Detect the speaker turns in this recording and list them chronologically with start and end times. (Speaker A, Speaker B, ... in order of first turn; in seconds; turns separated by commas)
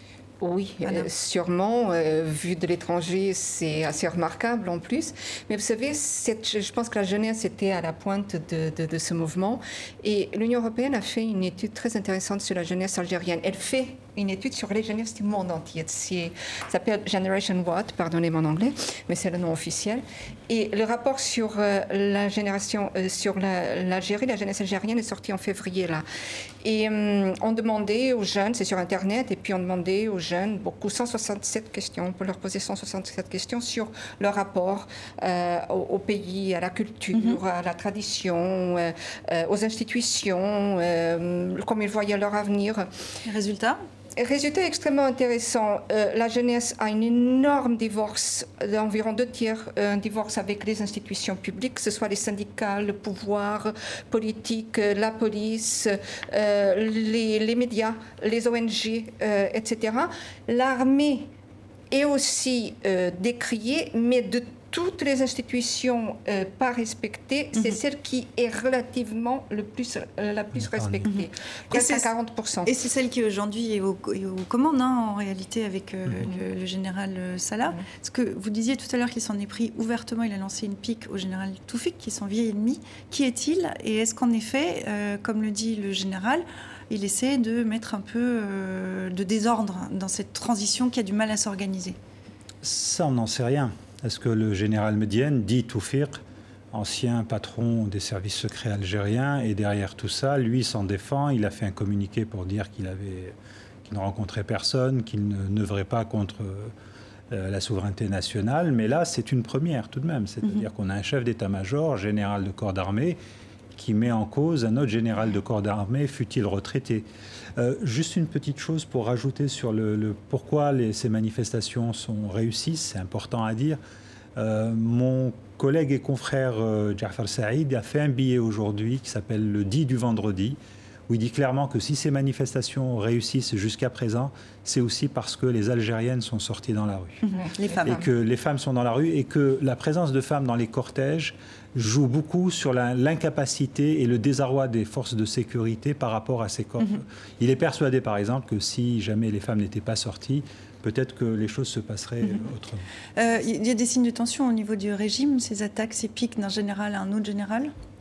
Speaker A: 0.4-26.0, Speaker A: 26.6-42.9, Speaker B: 37.1-37.4, Speaker B: 43.2-43.8, Speaker A: 44.2-61.3, Speaker A: 61.9-72.7, Speaker C: 70.5-71.0, Speaker B: 71.0-72.1, Speaker B: 72.6-92.0, Speaker C: 92.6-96.2, Speaker C: 96.7-103.3, Speaker C: 103.8-106.7, Speaker C: 107.3-113.2, Speaker C: 113.8-117.0, Speaker C: 117.6-123.8, Speaker C: 124.3-130.6, Speaker C: 131.1-137.2, Speaker B: 137.2-138.0, Speaker C: 137.8-152.8, Speaker B: 153.2-157.7